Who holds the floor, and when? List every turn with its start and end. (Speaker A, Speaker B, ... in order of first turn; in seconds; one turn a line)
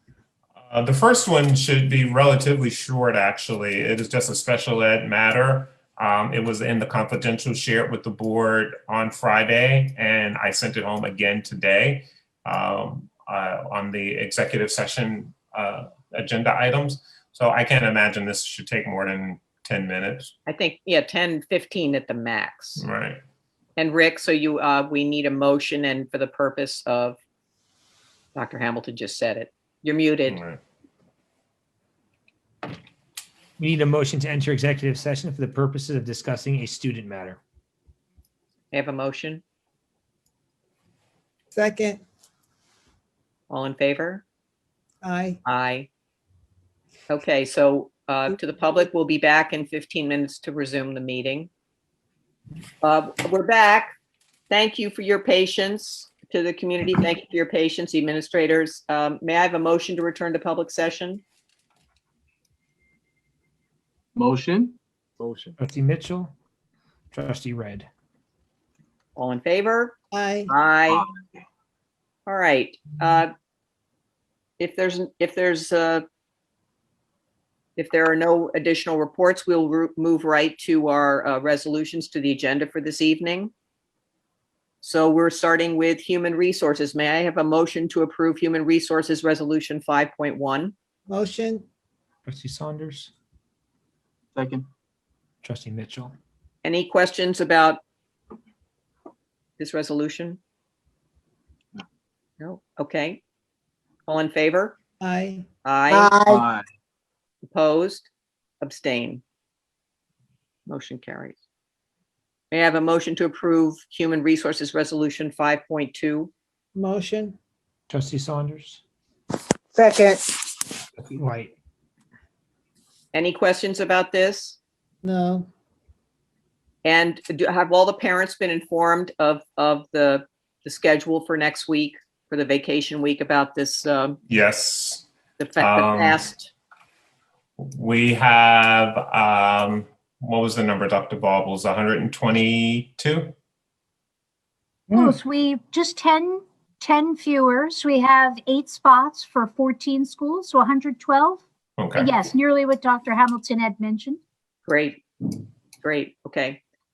Speaker A: 0.6-20.3
Speaker B: 20.5-22.8
Speaker A: 22.8-23.2
Speaker B: 23.8-27.2
Speaker B: 28.3-30.4
Speaker A: 30.3-30.6
Speaker C: 33.6-37.4
Speaker B: 38.7-39.4
Speaker D: 41.5-42.0
Speaker B: 43.5-44.2
Speaker D: 45.0-45.4
Speaker B: 45.4-45.9
Speaker B: 47.1-51.5
Speaker B: 52.8-53.9
Speaker B: 54.5-61.2
Speaker E: 64.2-64.8
Speaker C: 65.3-66.3
Speaker C: 67.1-67.9
Speaker B: 69.2-69.9
Speaker D: 70.1-70.5
Speaker B: 70.5-71.1
Speaker E: 70.9-71.4
Speaker B: 72.3-73.3
Speaker B: 74.6-76.0
Speaker B: 77.8-83.5
Speaker B: 84.8-90.7
Speaker D: 91.1-91.6
Speaker C: 92.2-93.1
Speaker E: 94.3-94.7
Speaker C: 95.4-96.1
Speaker B: 96.6-97.8
Speaker B: 99.6-100.4
Speaker B: 102.4-103.2
Speaker B: 104.1-104.8
Speaker D: 105.0-106.4
Speaker B: 105.6-106.2
Speaker E: 106.3-106.6
Speaker B: 107.4-108.1
Speaker B: 108.6-109.2
Speaker B: 110.7-111.3
Speaker B: 112.5-116.3
Speaker D: 116.7-117.3
Speaker C: 117.9-118.8
Speaker D: 119.7-120.5
Speaker C: 121.0-121.5
Speaker B: 123.1-124.6
Speaker D: 125.0-125.5
Speaker B: 126.8-134.2
Speaker A: 134.3-135.1
Speaker B: 135.4-136.5
Speaker A: 135.6-136.2
Speaker A: 137.6-143.3
Speaker F: 144.9-151.4
Speaker A: 151.8-152.1
Speaker F: 151.9-154.2
Speaker B: 154.7-156.6